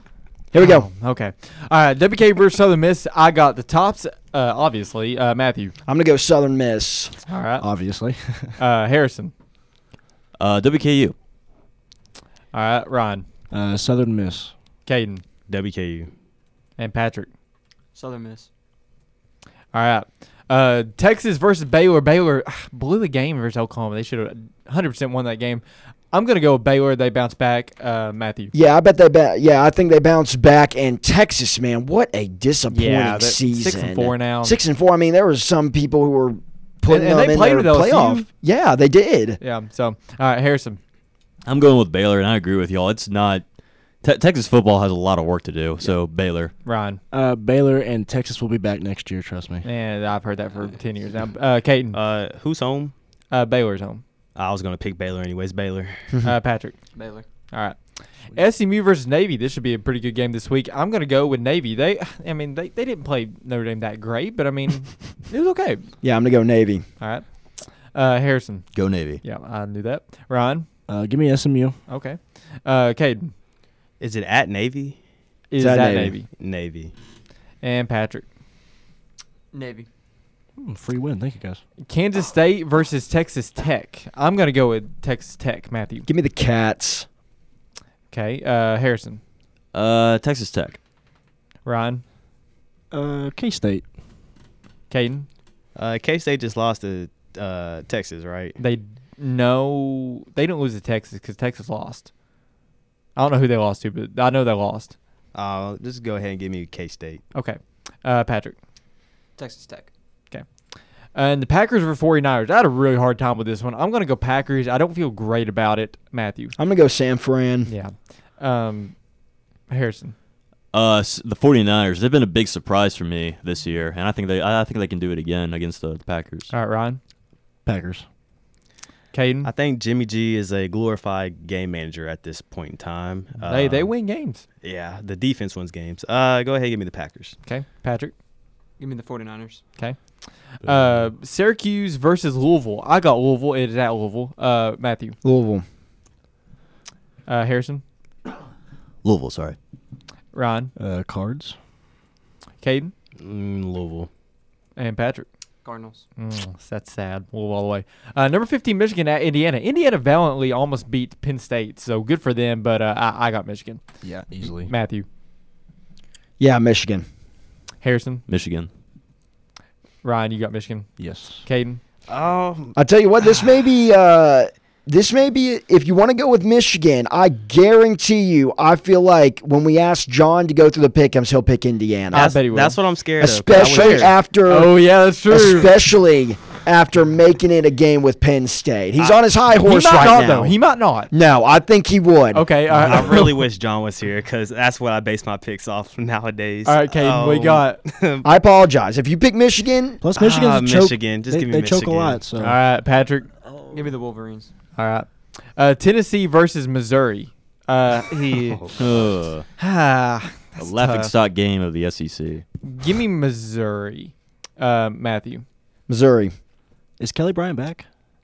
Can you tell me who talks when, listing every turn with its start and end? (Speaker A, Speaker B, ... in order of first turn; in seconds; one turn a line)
Speaker A: 0.5-0.9
Speaker B: 0.6-5.8
Speaker A: 5.9-7.1
Speaker B: 7.3-7.6
Speaker C: 7.6-8.5
Speaker B: 8.6-9.3
Speaker D: 10.4-11.2
Speaker B: 12.5-13.2
Speaker C: 13.5-14.5
Speaker B: 14.9-15.2
Speaker E: 15.5-16.1
Speaker B: 16.8-17.3
Speaker F: 17.9-18.5
Speaker B: 19.7-28.5
Speaker A: 28.5-39.4
Speaker B: 32.7-34.6
Speaker B: 36.9-38.3
Speaker B: 39.4-40.8
Speaker D: 41.5-43.4
Speaker D: 44.0-46.5
Speaker B: 46.6-47.0
Speaker C: 47.1-49.6
Speaker B: 49.6-52.0
Speaker E: 51.9-52.9
Speaker B: 53.3-54.0
Speaker E: 54.4-56.1
Speaker B: 56.2-56.8
Speaker F: 56.9-57.3
Speaker B: 57.5-57.8
Speaker B: 58.3-65.8
Speaker A: 66.0-66.8
Speaker B: 67.0-67.3
Speaker B: 67.8-68.7
Speaker D: 68.8-69.2
Speaker B: 69.2-70.7
Speaker C: 70.9-71.8
Speaker B: 71.9-73.3
Speaker E: 74.0-75.0
Speaker B: 75.5-76.3
Speaker A: 75.6-76.2
Speaker E: 76.4-76.9
Speaker B: 77.6-78.2
Speaker F: 79.5-79.9
Speaker C: 80.6-81.6
Speaker B: 81.9-86.1
Speaker A: 86.1-87.1
Speaker B: 88.1-89.2
Speaker D: 89.7-90.8
Speaker B: 91.7-92.0
Speaker C: 92.9-93.8
Speaker B: 94.9-95.3
Speaker E: 95.8-98.6
Speaker B: 98.6-102.1
Speaker B: 103.2-104.9
Speaker E: 105.3-107.2
Speaker B: 107.3-108.6
Speaker F: 109.4-109.9
Speaker B: 111.2-116.5
Speaker A: 116.6-117.7
Speaker B: 117.7-119.0
Speaker B: 119.7-120.2
Speaker D: 120.7-126.5
Speaker B: 126.5-127.0
Speaker C: 127.7-128.1
Speaker B: 129.1-129.5
Speaker E: 129.4-133.9
Speaker B: 133.4-134.4
Speaker E: 134.6-137.4
Speaker B: 137.5-138.1
Speaker F: 138.8-139.6
Speaker B: 140.6-145.2
Speaker A: 145.2-145.6
Speaker B: 147.3-147.8
Speaker D: 149.0-149.6
Speaker B: 150.3-150.7
Speaker C: 150.8-151.6
Speaker B: 152.6-152.9
Speaker E: 153.2-154.1
Speaker B: 154.8-155.3
Speaker F: 155.6-156.0
Speaker B: 156.2-163.8
Speaker C: 164.0-164.7
Speaker B: 164.4-165.1
Speaker A: 166.4-167.1
Speaker B: 167.8-168.2
Speaker D: 168.3-168.7
Speaker B: 170.0-170.9
Speaker C: 171.0-171.4
Speaker B: 171.4-171.8
Speaker E: 172.1-172.8
Speaker A: 172.8-182.3
Speaker B: 182.1-182.8
Speaker E: 182.1-184.1
Speaker A: 183.2-190.6
Speaker B: 183.5-185.7
Speaker B: 189.6-191.1
Speaker A: 191.1-192.5
Speaker B: 192.3-193.4
Speaker E: 192.8-198.3
Speaker B: 196.7-197.8
Speaker A: 198.2-200.0
Speaker C: 200.0-202.6
Speaker E: 200.2-202.2
Speaker B: 202.4-203.3
Speaker F: 203.7-204.5
Speaker B: 204.8-208.6
Speaker E: 208.2-209.1
Speaker D: 208.8-209.5
Speaker B: 209.6-211.1
Speaker D: 210.6-212.4
Speaker B: 212.6-215.4
Speaker A: 215.9-216.3
Speaker C: 217.0-217.9